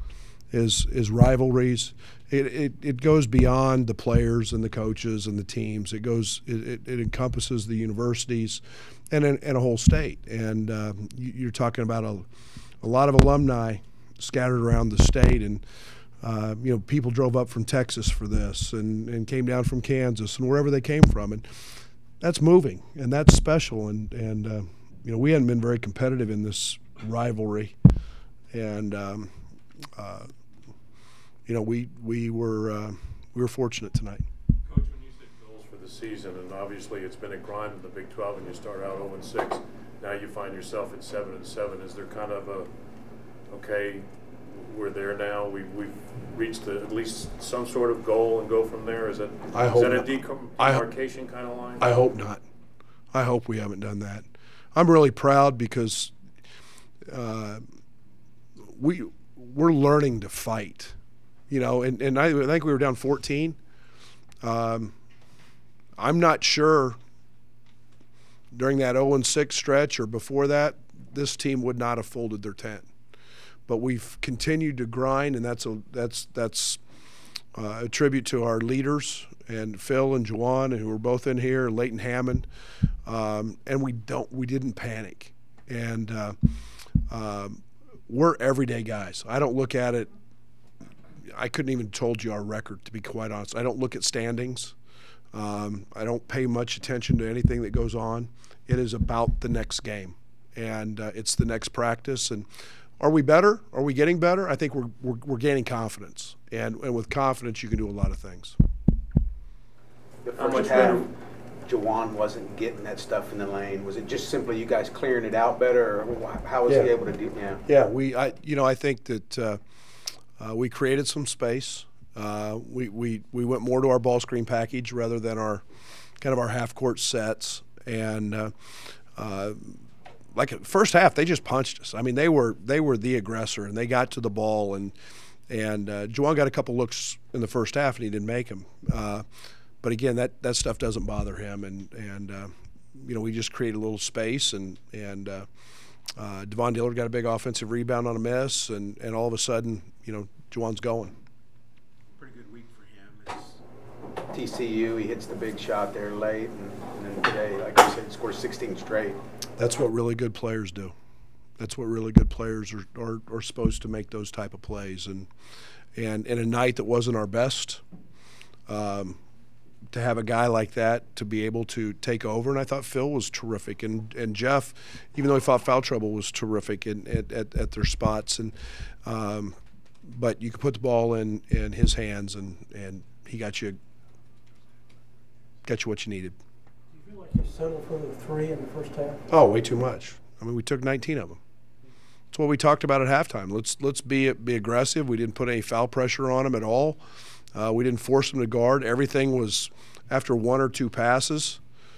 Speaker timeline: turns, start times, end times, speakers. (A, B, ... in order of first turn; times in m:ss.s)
0:00.5-0:12.2 A
0:12.8-0:15.6 A
0:16.2-0:21.4 A
0:22.2-0:27.7 A
0:28.5-0:29.3 A
0:30.0-0:30.3 A
0:31.4-0:34.2 A
0:34.6-0:42.7 B
0:43.5-0:51.9 B
0:49.5-0:50.9 A
0:51.8-0:52.4 A
0:53.1-0:56.1 A
0:57.1-0:57.6 A
0:58.7-1:01.0 A
1:01.5-1:03.6 A
1:04.4-1:04.9 A
1:06.0-1:07.0 A
1:08.5-1:12.9 A
1:13.7-1:16.8 A
1:17.5-1:22.5 A
1:23.0-1:26.4 A
1:27.1-1:30.1 A
1:31.2-1:34.8 A
1:35.3-1:42.5 A
1:43.0-1:48.6 A
1:50.2-1:51.1 C
1:50.4-1:51.1 B
1:51.6-1:57.6 C
1:56.6-1:56.9 A
1:57.6-1:59.6 A
2:00.4-2:05.6 A
2:06.2-2:08.5 A
2:09.2-2:09.8 A
2:10.3-2:14.9 A
2:15.5-2:19.2 A
2:19.8-2:25.5 A
2:26.2-2:31.2 A
2:32.2-2:33.5 C
2:34.3-2:39.2 C
2:39.6-2:40.9 A
2:41.6-2:45.3 A
2:46.0-2:47.8 A
2:48.7-2:49.2 A
2:49.9-3:03.8 A
3:05.6-3:06.4 A
3:06.9-3:09.2 D
3:09.3-3:11.4 A
3:12.3-3:17.0 A
3:17.5-3:21.6 A